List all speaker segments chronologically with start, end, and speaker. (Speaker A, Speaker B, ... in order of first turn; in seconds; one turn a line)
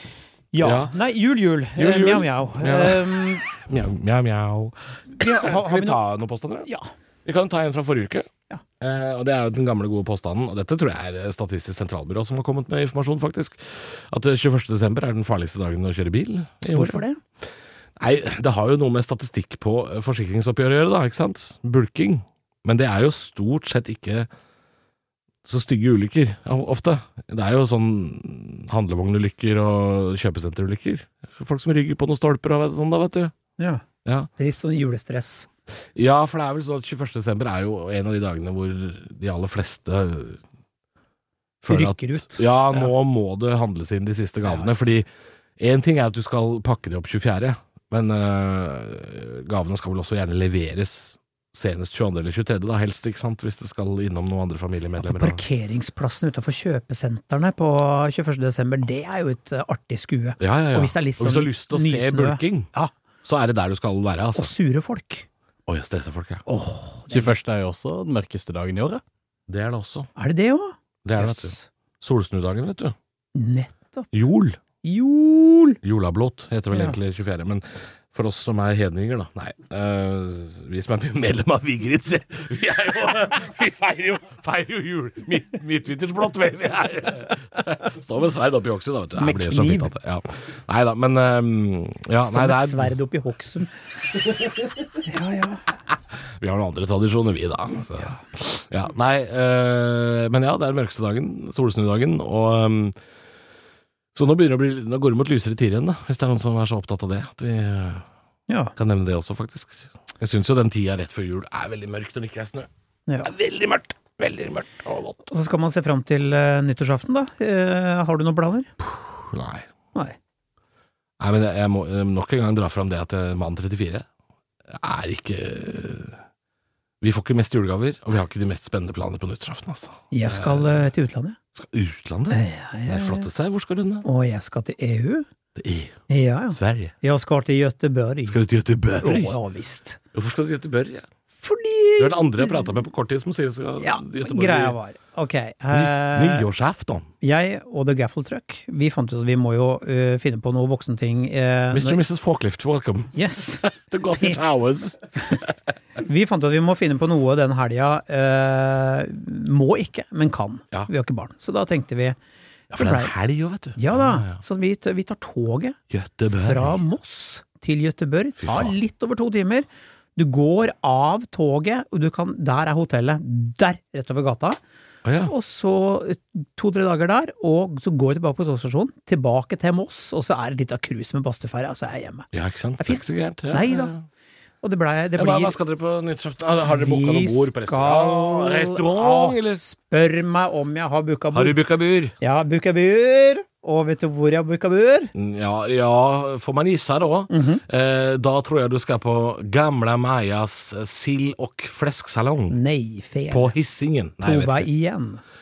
Speaker A: 0.5-3.5
Speaker B: 0.6-1.0
Speaker B: 1.8-6.7
Speaker A: 5.2-6.0
Speaker B: 7.2-8.3
Speaker B: 8.8-17.0
Speaker A: 16.7-17.2
Speaker B: 18.0-24.3
Speaker B: 25.4-33.3
Speaker A: 33.6-33.9
Speaker B: 34.0-34.3
Speaker A: 34.4-35.5
Speaker B: 36.0-40.4
Speaker B: 41.6-45.1
Speaker A: 41.7-42.9
Speaker A: 44.4-44.9
Speaker B: 45.6-55.4
Speaker A: 55.0-62.9
Speaker B: 60.4-62.7
Speaker B: 63.2-64.5
Speaker A: 64.3-65.3
Speaker B: 65.7-66.4
Speaker A: 66.5-67.3
Speaker C: 67.1-69.0
Speaker B: 69.5-70.1
Speaker A: 70.2-71.7
Speaker B: 71.0-73.0
Speaker A: 73.3-74.1
Speaker B: 74.1-74.6
Speaker A: 74.8-75.8
Speaker B: 75.8-93.0
Speaker A: 76.7-77.0
Speaker A: 89.2-89.9
Speaker A: 92.2-93.7
Speaker A: 95.0-95.7
Speaker B: 96.1-103.0
Speaker B: 104.1-108.0
Speaker A: 108.5-108.7
Speaker B: 108.8-112.7
Speaker B: 113.2-115.3
Speaker A: 115.3-118.7
Speaker B: 119.0-119.7
Speaker B: 121.2-124.0
Speaker B: 124.7-126.2
Speaker B: 127.0-130.9
Speaker A: 130.1-131.4
Speaker B: 131.5-134.1
Speaker A: 132.3-133.3
Speaker A: 134.0-135.2
Speaker B: 135.6-136.0
Speaker A: 136.1-138.4
Speaker B: 136.5-136.9
Speaker B: 138.3-139.4
Speaker A: 139.0-140.0
Speaker B: 140.1-141.1
Speaker A: 141.4-142.7
Speaker B: 142.0-144.8
Speaker A: 143.8-146.5
Speaker B: 145.7-147.1
Speaker A: 147.2-152.0
Speaker B: 151.7-155.5
Speaker A: 153.1-153.7
Speaker A: 156.0-162.2
Speaker B: 162.7-164.4
Speaker A: 162.7-163.1
Speaker A: 163.8-165.8
Speaker B: 165.9-166.8
Speaker A: 166.3-174.6
Speaker B: 168.4-168.8
Speaker B: 175.1-175.3
Speaker A: 175.2-182.3
Speaker B: 182.3-184.1
Speaker A: 182.8-183.9
Speaker A: 184.6-185.6
Speaker B: 185.2-189.6
Speaker A: 186.6-191.6
Speaker B: 191.3-192.2
Speaker A: 192.2-195.1
Speaker B: 195.1-202.6
Speaker A: 197.3-197.6
Speaker A: 202.5-203.6
Speaker B: 203.3-204.7
Speaker A: 204.2-205.2